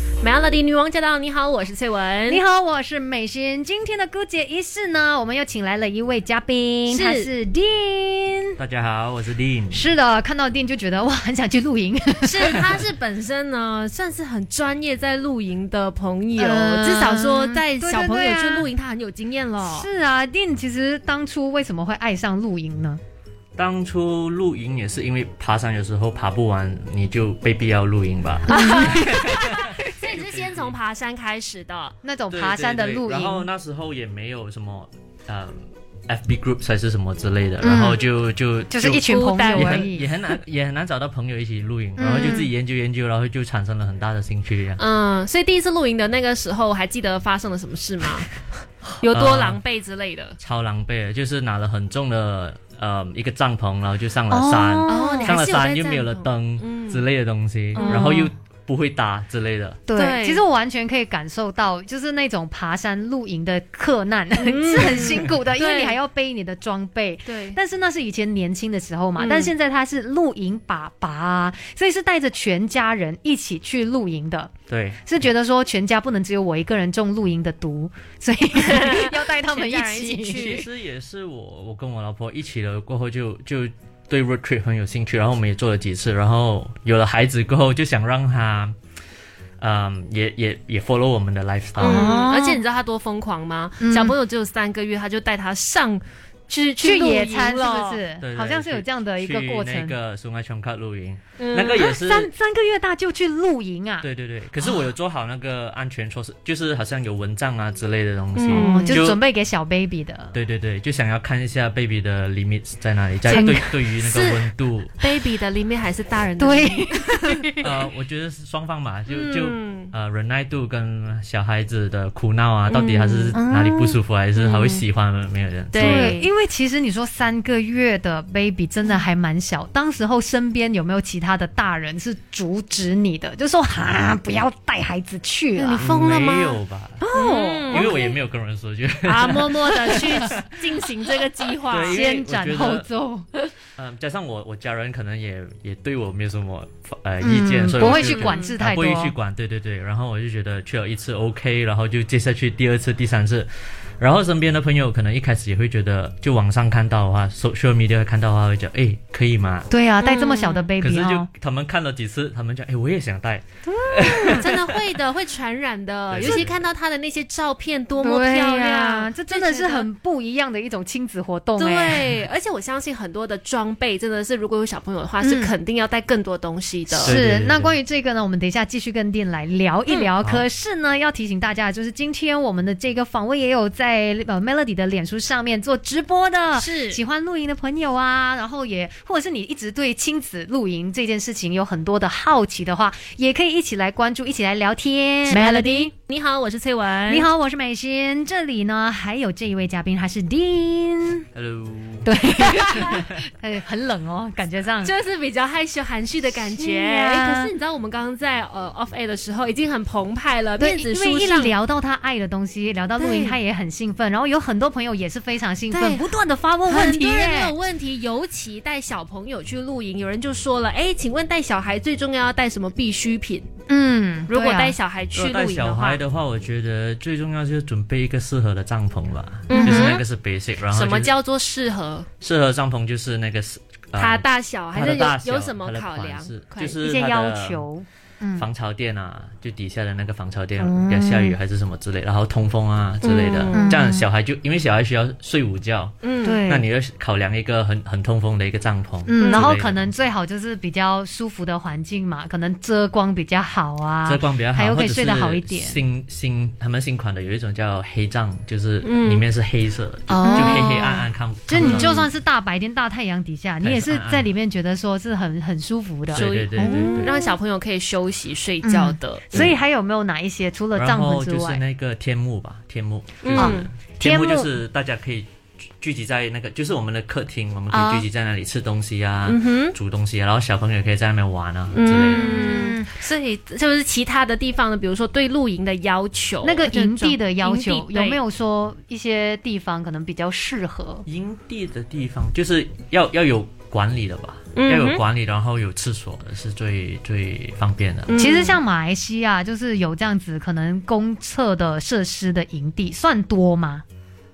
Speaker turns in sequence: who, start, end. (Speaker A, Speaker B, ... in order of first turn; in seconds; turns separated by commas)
Speaker A: 0.2-2.4, Speaker B: 2.3-8.6, Speaker A: 6.9-7.3, Speaker C: 8.6-9.9, Speaker B: 9.7-12.9, Speaker A: 12.2-19.9, Speaker B: 16.4-18.7, Speaker B: 19.6-23.0, Speaker C: 23.6-30.8, Speaker A: 28.5-31.9, Speaker B: 28.5-29.1, Speaker B: 32.0-33.5, Speaker C: 32.3-44.8, Speaker B: 37.6-38.0, Speaker B: 38.7-40.1, Speaker A: 39.0-39.9, Speaker B: 42.0-42.5, Speaker A: 42.1-42.5, Speaker A: 44.8-50.4, Speaker C: 49.1-49.6, Speaker C: 50.4-59.8, Speaker B: 54.3-55.4, Speaker A: 54.9-57.0, Speaker A: 57.8-58.2, Speaker B: 57.8-58.3, Speaker B: 59.9-74.5, Speaker A: 60.0-60.4, Speaker A: 64.4-66.0, Speaker A: 67.3-67.6, Speaker A: 69.2-69.5, Speaker C: 74.7-75.1, Speaker B: 75.0-80.6, Speaker A: 78.7-80.7, Speaker C: 80.3-88.8, Speaker C: 89.6-92.1, Speaker A: 91.8-98.0, Speaker B: 91.8-92.6, Speaker B: 93.8-94.2, Speaker B: 96.8-100.0, Speaker C: 98.2-102.3, Speaker A: 101.4-101.8, Speaker B: 101.7-104.1, Speaker C: 104.0-109.2, Speaker A: 108.4-109.0, Speaker B: 108.5-110.4, Speaker C: 110.3-115.0, Speaker B: 113.3-113.9, Speaker A: 113.3-117.4, Speaker B: 116.4-117.7, Speaker C: 117.6-126.2, Speaker A: 119.1-119.9, Speaker A: 122.7-123.4, Speaker B: 123.3-124.0, Speaker A: 124.3-124.8, Speaker A: 125.7-126.3, Speaker B: 125.8-135.9, Speaker A: 135.6-136.6, Speaker C: 135.8-137.1, Speaker B: 137.0-138.1, Speaker A: 137.1-138.0, Speaker C: 137.7-140.4, Speaker A: 139.0-142.0, Speaker C: 141.6-142.9, Speaker B: 141.8-143.3, Speaker C: 143.8-159.7, Speaker B: 147.2-149.2, Speaker A: 147.8-148.5, Speaker B: 159.7-161.3, Speaker A: 160.0-160.7, Speaker C: 160.8-164.8, Speaker B: 163.7-164.4, Speaker A: 164.4-169.9, Speaker C: 166.1-166.7, Speaker B: 168.0-172.2, Speaker A: 171.6-177.2, Speaker B: 175.2-175.5, Speaker C: 177.0-177.8, Speaker B: 177.0-195.9, Speaker A: 186.5-187.0, Speaker A: 195.3-197.3, Speaker B: 197.1-201.3, Speaker C: 201.3-203.2, Speaker B: 202.0-204.9, Speaker A: 202.4-203.0, Speaker A: 204.8-211.6, Speaker B: 206.6-207.5, Speaker B: 210.6-217.6, Speaker A: 213.0-213.4, Speaker A: 215.7-216.1, Speaker A: 216.7-223.5, Speaker B: 223.7-224.8, Speaker A: 224.3-226.0, Speaker C: 225.1-231.1, Speaker A: 229.5-230.0, Speaker B: 229.5-229.9, Speaker A: 230.7-232.1, Speaker C: 232.2-237.7, Speaker A: 234.0-236.8, Speaker B: 236.8-238.5, Speaker C: 238.4-249.9, Speaker B: 240.6-241.4, Speaker A: 243.0-243.8, Speaker B: 243.5-244.1, Speaker A: 246.0-246.4, Speaker B: 246.2-246.7, Speaker B: 249.1-255.8, Speaker A: 249.2-249.5, Speaker C: 254.1-262.1, Speaker A: 258.8-259.3, Speaker B: 260.1-267.3, Speaker A: 260.2-260.7, Speaker A: 261.6-262.1, Speaker C: 263.6-264.3, Speaker C: 266.1-267.2, Speaker A: 266.1-269.5, Speaker B: 268.6-271.6, Speaker C: 269.3-269.6, Speaker C: 270.8-275.3, Speaker A: 273.2-273.7, Speaker B: 273.3-274.6, Speaker C: 275.8-282.3, Speaker A: 277.7-278.1, Speaker A: 279.3-279.8, Speaker A: 281.7-288.2, Speaker B: 282.1-282.9, Speaker B: 286.4-291.1, Speaker C: 291.1-298.2, Speaker A: 294.6-295.0, Speaker A: 298.1-298.6, Speaker B: 298.1-303.8